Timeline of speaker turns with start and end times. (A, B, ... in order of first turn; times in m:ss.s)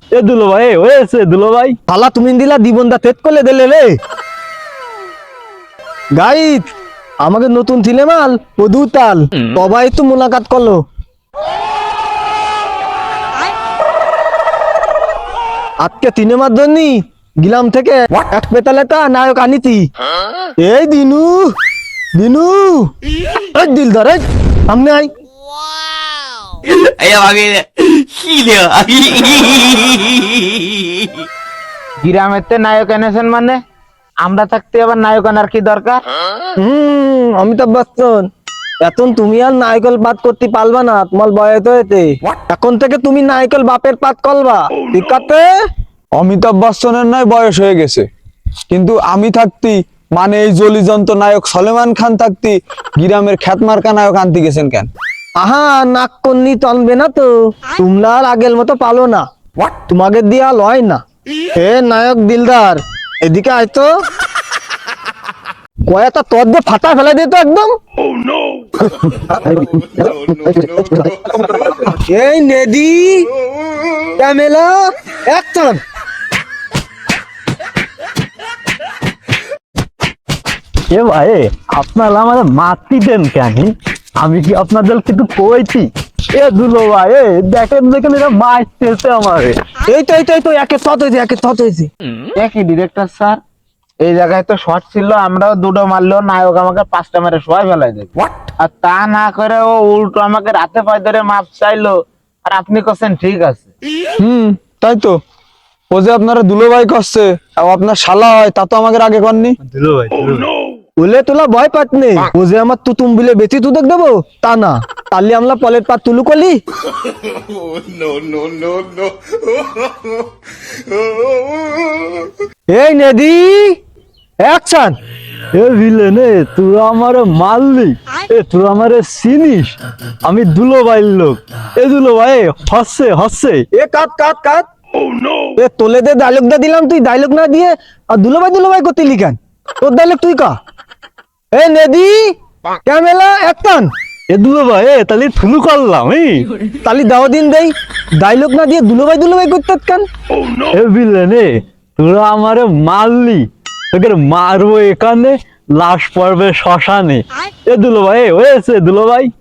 0:00.1-0:01.7 A
0:01.9-0:03.9 B
0:06.2-0:06.6 B
0:07.2-0:10.8 B
0:15.8-0:19.9 B
0:20.6-0:21.5 B
0:22.2-0:25.1 B
0:26.7-0:30.0 C
0:32.0-0:33.6 D
0:34.2-0:36.0 D
0:36.6-0:38.3 B
0:38.8-0:45.5 B
0:46.2-0:48.0 E
0:48.7-0:54.9 E
0:55.4-0:59.2 B
0:59.8-1:01.0 B
1:01.6-1:03.9 B
1:05.9-1:07.8 B
1:08.8-1:13.3 B
1:14.2-1:15.8 B
1:20.9-1:29.6 A
1:29.9-1:31.9 B
1:32.4-1:33.4 D
1:34.0-1:43.7 D
1:44.2-1:45.2 E
1:45.9-1:49.6 E
1:49.6-1:50.5 A
1:51.0-1:56.6 B
2:02.7-2:03.8 B
2:04.4-2:05.0 B
2:05.5-2:13.6 A
2:13.7-2:14.6 B
2:15.6-2:20.6 B
2:21.5-2:22.3 B
2:22.8-2:23.9 B
2:24.3-2:26.5 A
2:26.8-2:30.1 B
2:30.7-2:39.3 A